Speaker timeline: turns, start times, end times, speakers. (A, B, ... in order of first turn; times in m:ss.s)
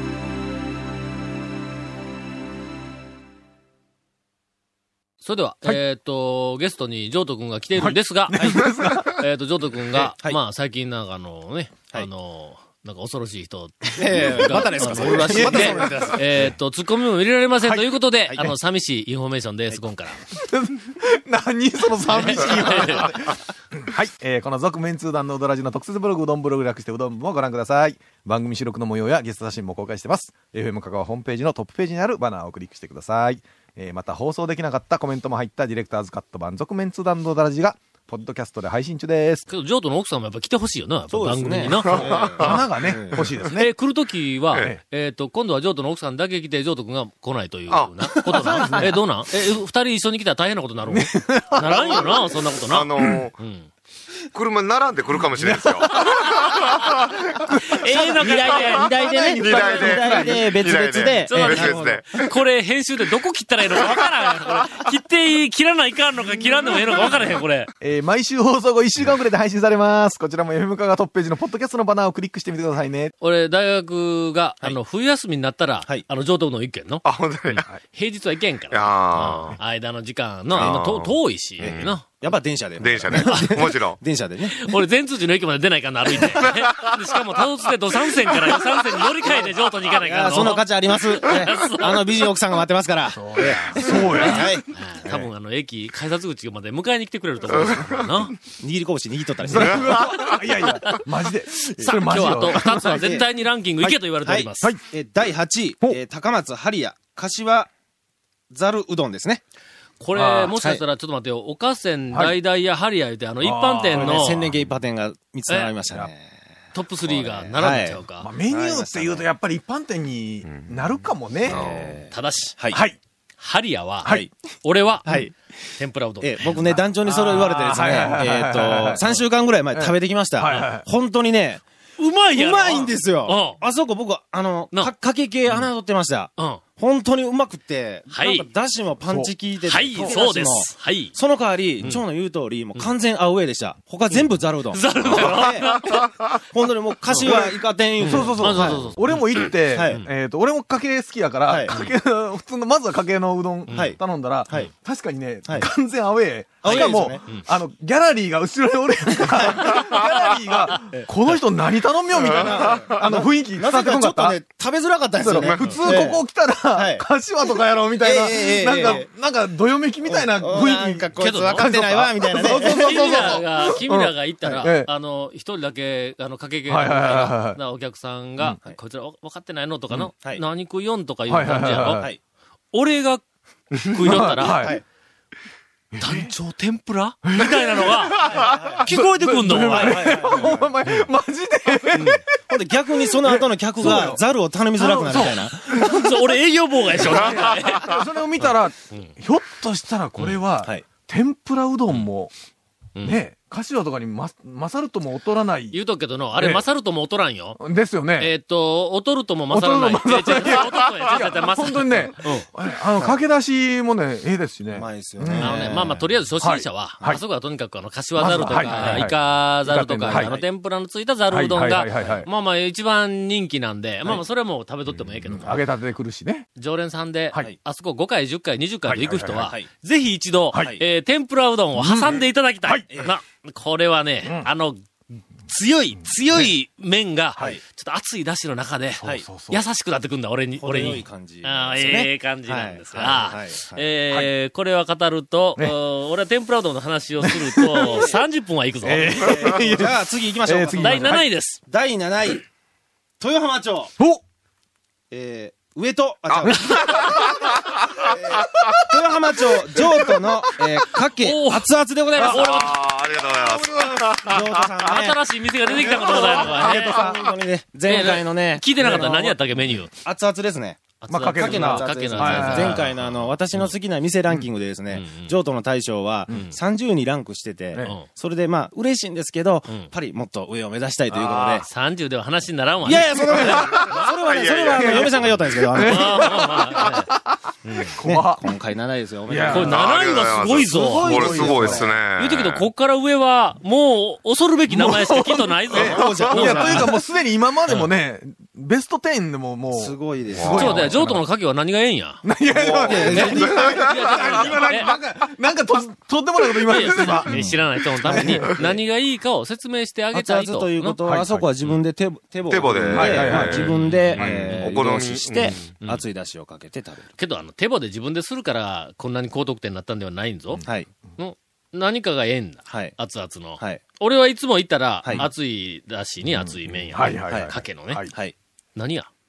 0:05.2-0:20.2 A
0:07.8-0:09.2 B
0:08.4-0:08.6 C
0:14.0-0:16.3 C
0:15.3-0:16.0 B
0:17.6-0:18.5 B
0:20.3-0:39.4 B
0:22.1-0:23.2 A
0:39.5-0:42.4 A
0:41.1-0:43.3 C
0:41.8-0:42.5 D
0:42.4-0:43.7 B
0:43.4-0:53.7 A
0:47.7-0:48.1 D
0:48.3-0:48.9 B
0:48.3-0:49.5 C
0:50.9-0:52.3 B
0:52.6-0:53.4 D
0:54.3-0:57.0 D
0:55.3-0:56.6 B
0:56.0-0:56.9 A
0:57.3-1:00.5 B
0:57.5-0:59.9 A
0:58.2-1:02.0 C
0:59.4-1:02.3 D
1:01.2-1:07.7 A
1:07.8-1:13.1 B
1:13.2-1:22.1 A
1:17.0-1:17.7 D
1:18.7-1:19.6 D
1:20.5-1:22.0 D
1:21.6-1:24.6 C
1:22.8-1:24.0 D
1:23.1-1:23.7 A
1:24.4-1:32.3 A
1:26.4-1:27.0 D
1:30.0-1:35.3 C
1:33.2-1:34.6 B
1:33.3-1:38.4 A
1:38.6-1:40.0 C
1:39.5-1:43.0 B
1:39.6-1:41.0 A
1:41.8-1:44.8 A
1:42.7-1:43.3 C
1:44.2-1:47.7 C
1:48.5-1:49.4 C
1:50.0-1:54.6 A
1:50.1-1:50.6 B
1:50.6-1:50.8 C
1:53.4-1:54.2 B
1:53.9-1:56.4 C
1:55.5-1:55.8 A
1:56.7-1:58.3 A
1:57.0-1:59.3 C
1:58.2-2:01.7 B
2:00.4-2:00.9 D
2:01.5-2:02.8 C
2:01.5-2:02.1 D
2:02.1-2:02.6 A
2:02.7-2:03.0 B
2:03.4-2:08.2 A
2:05.0-2:05.3 C
2:06.2-2:11.6 C
2:07.3-2:09.1 B
2:09.7-2:10.8 B
2:12.0-2:13.6 A
2:12.3-2:25.7 C
2:16.4-2:16.6 A
2:18.1-2:18.5 A
2:19.1-2:19.3 B
2:19.6-2:21.2 A
2:21.8-2:22.1 A
2:24.1-2:26.2 A
2:26.5-2:29.0 C
2:27.1-2:44.4 B
2:28.0-2:30.1 A
2:29.7-2:30.0 C
2:31.5-2:31.8 C
2:33.7-2:34.7 A
2:33.7-2:34.0 C
2:35.5-2:35.7 C
2:36.6-2:37.3 C
2:36.6-2:37.5 A
2:40.7-2:41.4 A
2:42.2-2:43.1 D
2:42.2-2:47.1 C
2:45.2-2:54.9 B
2:45.4-2:45.8 D
2:45.6-2:45.9 A
2:48.0-2:49.1 C
2:50.1-2:53.4 C
2:51.2-2:51.7 A
2:52.4-3:02.1 A
2:56.7-2:57.6 B
3:01.3-3:02.1 B
3:02.7-3:04.8 A
3:04.0-3:04.8 B
3:04.6-3:04.8 C
3:05.9-3:06.3 B
3:06.0-3:11.1 A
3:07.3-3:14.2 B
3:08.2-3:08.9 C
3:09.5-3:10.7 C
3:11.9-3:12.2 A
3:12.5-3:16.2 C
3:14.8-3:16.0 B
3:15.1-3:19.1 A
3:17.0-3:22.3 B
3:23.0-3:23.2 A
3:23.0-3:25.8 B
3:25.7-3:27.6 A
3:26.4-3:26.6 B
3:27.6-3:28.3 B
3:28.2-3:32.5 A
3:29.5-3:35.6 B
3:34.7-3:36.0 C
3:35.4-3:45.6 A
3:36.4-3:37.2 B
3:38.2-3:40.4 B
3:38.6-3:39.0 C
3:40.1-3:40.5 C
3:41.3-3:42.3 B
3:45.2-3:46.5 B
3:46.6-3:54.8 A
3:48.8-3:49.5 B
3:50.5-3:50.8 B
3:51.8-3:52.9 B
3:54.2-3:54.5 B
3:55.5-4:09.4 A
3:59.0-3:59.6 B
4:00.6-4:03.8 C
4:07.2-4:08.0 B
4:08.8-4:11.2 B
4:09.2-4:12.5 C
4:10.8-4:11.6 A
4:13.2-4:13.9 C
4:15.1-4:17.3 C
4:16.3-4:17.3 D
4:16.3-4:16.8 B
4:18.0-4:22.8 C
4:19.8-4:20.8 B
4:21.2-4:22.8 A
4:22.2-4:22.5 B
4:22.4-4:24.8 D
4:23.4-4:25.2 C
4:24.8-4:27.1 A
4:25.7-4:26.9 B
4:25.8-4:29.4 C
4:27.8-4:29.9 A
4:28.8-4:29.1 B
4:30.0-4:41.7 C
4:31.0-4:33.8 A
4:31.1-4:32.9 B
4:34.9-4:35.4 A
4:36.3-4:36.6 A
4:37.8-4:38.1 A
4:41.1-4:41.6 B
4:41.5-4:43.7 A
4:42.8-4:46.3 C
4:43.4-4:45.1 D
4:44.7-4:47.4 B
4:45.8-4:47.1 A
4:47.6-4:48.0 A
4:47.9-4:48.4 B
4:48.0-4:49.9 C
4:49.3-4:49.8 B
4:49.5-4:56.9 A
4:49.6-4:52.7 D
4:50.6-4:51.9 C
4:50.7-4:51.8 B
4:54.7-5:01.2 B
4:55.7-4:56.9 C
4:56.0-4:56.4 D
4:59.7-5:00.9 C
5:00.3-5:00.9 D
5:00.5-5:02.2 A
5:02.2-5:07.3 B
5:02.5-5:03.6 C
5:02.9-5:04.9 A
5:03.4-5:04.5 D
5:06.6-5:11.0 A
5:07.3-5:08.8 C
5:08.0-5:08.5 B
5:10.1-5:17.1 C
5:11.0-5:11.4 B
5:12.5-5:15.8 D
5:12.8-5:14.6 B
5:13.6-5:14.8 A
5:15.8-5:16.1 A
5:17.2-5:20.6 A
5:21.2-5:28.1 A
5:22.7-5:23.0 C
5:25.0-5:25.3 C
5:26.2-5:28.1 B
5:27.0-5:27.5 C
5:28.8-5:29.1 A